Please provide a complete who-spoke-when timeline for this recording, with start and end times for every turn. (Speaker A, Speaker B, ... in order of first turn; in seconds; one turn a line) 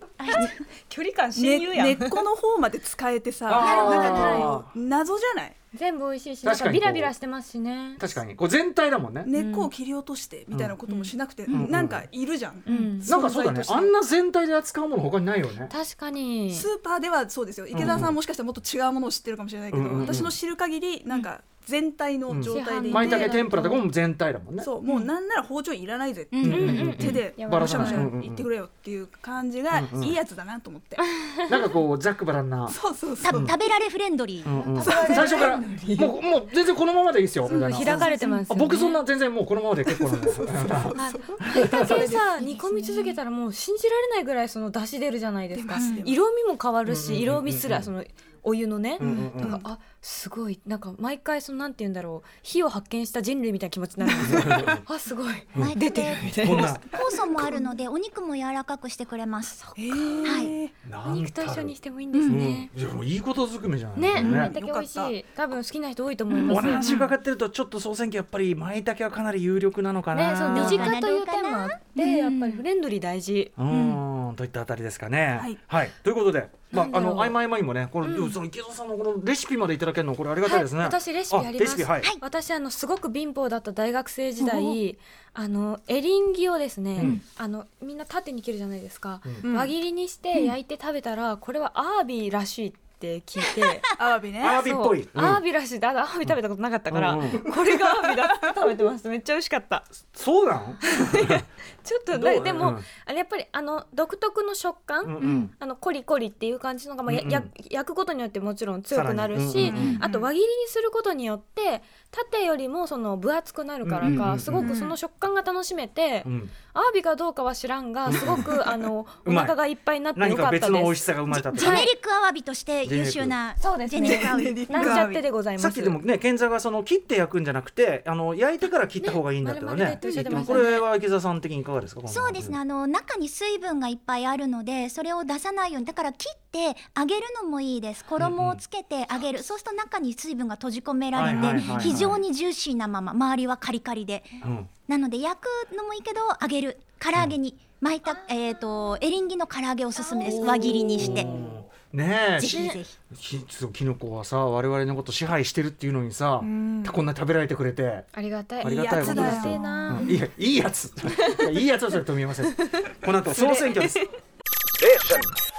Speaker A: 0.2-0.6
Speaker B: 0.3-2.2
Speaker C: 1.3-5.5
Speaker D: 3.5-4.7
Speaker B: 3.6-4.5
Speaker A: 3.6-4.5
Speaker B: 5.7-8.0
Speaker D: 6.4-7.1
Speaker D: 8.0-9.3
Speaker C: 9.2-13.9
Speaker B: 9.3-9.7
Speaker B: 10.9-11.6
Speaker D: 11.5-12.1
Speaker B: 12.7-13.1
Speaker A: 12.7-13.1
Speaker D: 13.0-15.7
Speaker B: 15.7-16.7
Speaker C: 16.5-23.8
Speaker D: 17.7-18.2
Speaker D: 19.7-20.3
Speaker D: 22.3-24.7
Speaker B: 22.5-23.8
Speaker C: 24.6-31.0
Speaker A: 26.3-27.0
Speaker D: 26.4-28.5
Speaker B: 26.5-28.1
Speaker D: 29.7-30.2
Speaker D: 31.4-33.5
Speaker C: 32.7-33.5
Speaker A: 33.2-34.5
Speaker D: 34.4-42.2
Speaker B: 34.6-35.9
Speaker C: 34.8-36.1
Speaker C: 37.5-38.4
Speaker B: 37.5-39.0
Speaker C: 39.9-42.2
Speaker B: 40.9-56.8
Speaker A: 42.4-43.1
Speaker C: 45.5-46.1
Speaker A: 45.8-46.0
Speaker D: 46.9-47.9
Speaker D: 49.0-49.6
Speaker C: 49.0-49.4
Speaker C: 54.0-54.5
Speaker D: 54.2-54.8
Speaker D: 55.5-56.9
Speaker A: 55.6-59.6
Speaker B: 59.5-62.7
Speaker C: 59.8-60.7
Speaker A: 60.2-60.5
Speaker D: 60.8-61.7
Speaker A: 62.1-62.4
Speaker D: 62.3-64.5
Speaker B: 63.9-67.0
Speaker A: 64.2-64.5
Speaker C: 64.2-65.1
Speaker A: 66.3-66.6
Speaker D: 66.5-70.9
Speaker C: 66.7-67.1
Speaker B: 70.1-73.5
Speaker A: 70.5-72.6
Speaker D: 73.6-82.1
Speaker A: 73.7-74.0
Speaker B: 76.7-77.4
Speaker B: 78.0-78.4
Speaker B: 80.4-93.9
Speaker C: 84.4-84.8
Speaker C: 89.4-89.7
Speaker C: 93.8-94.7
Speaker D: 94.4-95.4
Speaker B: 94.6-99.9
Speaker D: 96.9-97.5
Speaker D: 100.1-101.4
Speaker B: 100.8-121.0
Speaker D: 102.1-102.9
Speaker D: 105.0-105.5
Speaker D: 107.1-107.5
Speaker D: 108.9-110.0
Speaker C: 109.6-110.3
Speaker D: 113.8-114.7
Speaker C: 114.6-115.0
Speaker D: 116.2-116.5
Speaker D: 118.1-118.6
Speaker D: 119.2-119.6
Speaker D: 120.1-121.9
Speaker A: 121.3-125.0
Speaker B: 121.5-121.9
Speaker D: 122.8-123.4
Speaker B: 123.6-126.0
Speaker C: 124.0-125.2
Speaker D: 125.6-132.6
Speaker B: 129.0-130.8
Speaker A: 132.1-151.3
Speaker D: 138.2-138.6
Speaker D: 141.1-142.2
Speaker B: 141.5-142.0
Speaker D: 144.4-144.7
Speaker B: 150.0-150.7
Speaker D: 150.2-158.1
Speaker C: 150.4-151.1
Speaker A: 152.4-153.0
Speaker C: 156.4-157.0
Speaker B: 158.1-160.1
Speaker C: 158.6-160.1
Speaker D: 158.6-164.0
Speaker B: 161.1-161.5
Speaker C: 163.3-164.0